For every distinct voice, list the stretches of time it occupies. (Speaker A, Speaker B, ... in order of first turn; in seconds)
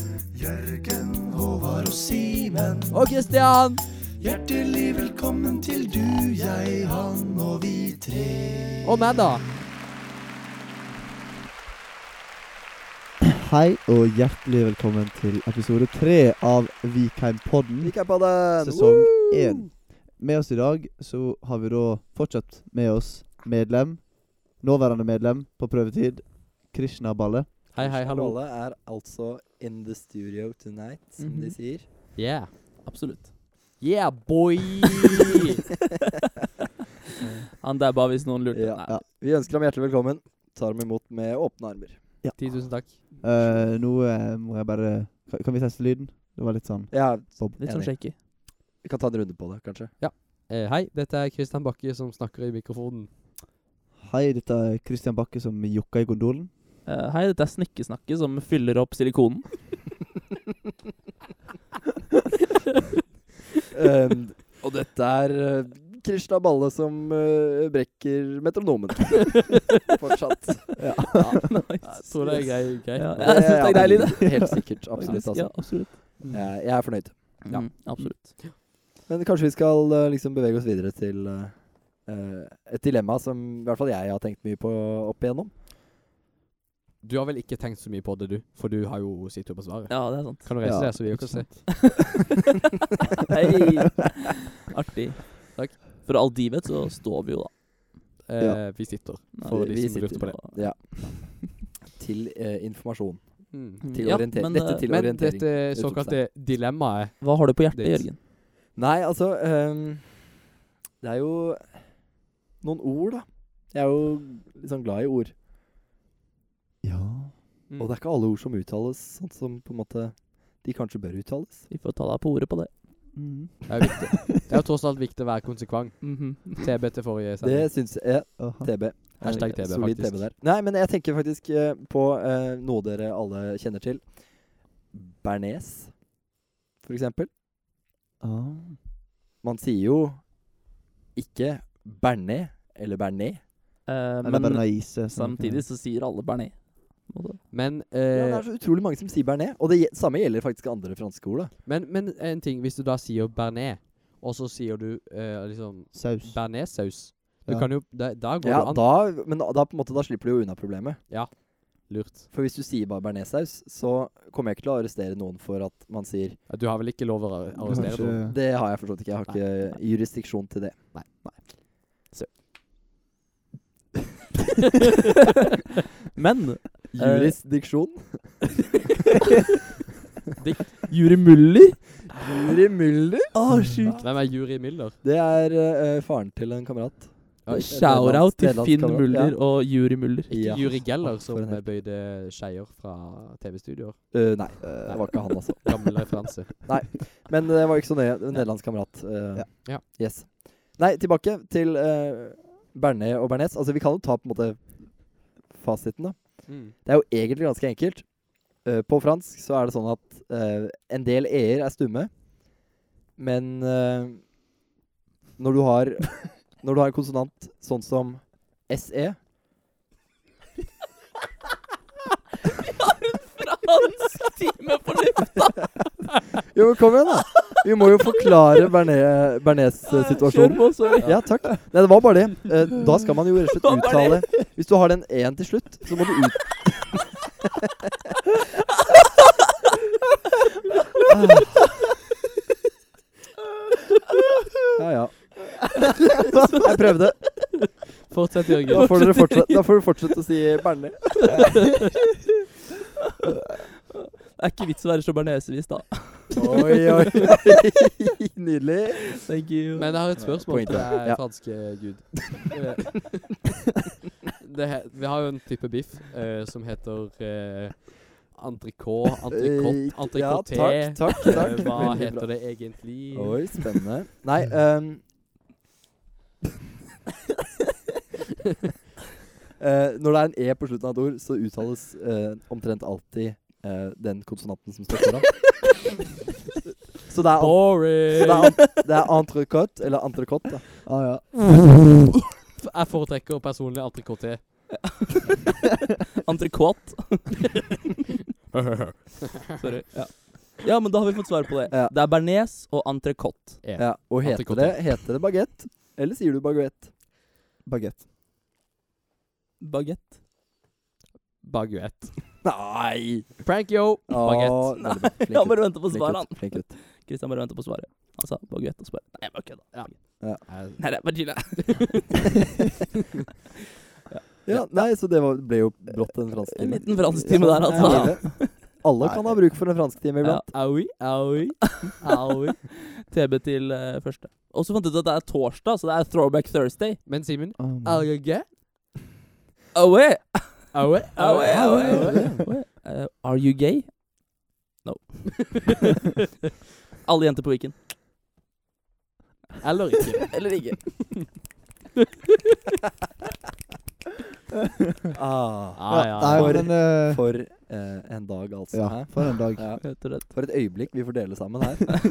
Speaker A: 0.4-2.9, 4.2-8.8, 13.2-27.5, 42.2-47.6, 54.0-56.5, 70.8-71.4, 76.2-76.5, 90.6-91.5, 116.8-117.3, 123.1-124.5, 128.4-128.9, 138.2-138.8, 144.2-145.7, 155.9-156.6, 157.5-157.7, 167.6-168.4, 241.2-241.6, 290.9-291.7, 307.6-308.1, 327.1-328.3, 329.0-329.4, 337.6-338.1, 355.9-357.2, 358.7-359.7
Speaker B: 2.9-3.8, 8.8-9.4, 27.7-28.4, 32.2-32.5, 33.8-35.6, 42.4-43.0, 50.0-53.1, 69.2-69.5, 71.8-73.5, 87.0-91.9, 95.5-95.8, 98.2-100.4, 103.5-103.8, 104.6-108.1, 117.7-118.0, 123.7-127.7, 129.2-130.3, 147.5-148.4, 151.6-158.8, 161.1-162.3, 166.5-168.2, 170.9-171.4, 180.4-180.8, 184.0-185.0, 187.4-187.7, 190.3-196.7, 206.5-206.7, 248.1-248.9, 256.4-256.7, 259.8-263.2, 264.4-273.5, 287.4-288.7, 292.6-294.6, 298.5-299.4, 303.6-305.1, 311.4-312.3, 313.4-314.7, 319.7-322.0, 330.5-332.6, 337.1-338.6, 340.7-342.4, 349.6-350.3, 355.8-356.6
Speaker C: 17.8-19.5, 27.8-31.9, 38.5-42.1, 46.9-49.9, 63.7-70.8, 73.2-77.7, 79.1-85.5, 99.5-106.2, 108.7-110.5, 111.0-115.3, 117.8-121.7, 127.4-136.3, 136.8-137.3, 139.4-143.5, 148.1-151.5, 158.4-161.5, 162.3-166.4, 167.7-170.9, 176.9-178.5, 182.2-183.3, 185.0-189.4, 190.3-191.6, 194.1-195.7, 196.7-214.4, 215.4-219.2, 226.5-237.0, 244.7-245.3, 246.6-247.5, 248.7-251.4, 256.3-259.2, 260.2-261.2, 269.3-275.1, 279.6-285.6, 287.1-290.7, 303.8-306.9, 312.4-313.4, 314.1-316.7, 324.4-330.5, 341.8-342.5, 355.1-361.9
Speaker D: 31.2-32.1, 32.8-33.3, 37.6-39.0, 47.5-48.2, 56.9-59.8, 71.1-76.2, 77.5-78.4, 89.9-91.8, 93.3-97.5, 99.3-101.3, 103.8-104.9, 107.2-108.2, 121.7-122.7, 126.0-126.6, 129.2-129.6, 143.9-147.4, 176.1-177.4, 180.9-182.2, 183.3-184.1, 187.5-190.3, 222.6-225.7, 229.9-231.4, 233.6-234.3, 246.3-246.7, 248.7-249.9, 254.2-257.0, 259.2-260.9, 271.3-272.1, 295.1-295.5, 296.2-297.6, 299.6-303.6, 309.6-310.2, 314.6-322.3, 324.1-324.9, 326.6-328.6, 330.2-331.1, 332.6-337.1, 339.7-346.0, 347.0-347.8, 350.3-351.4, 359.8-360.3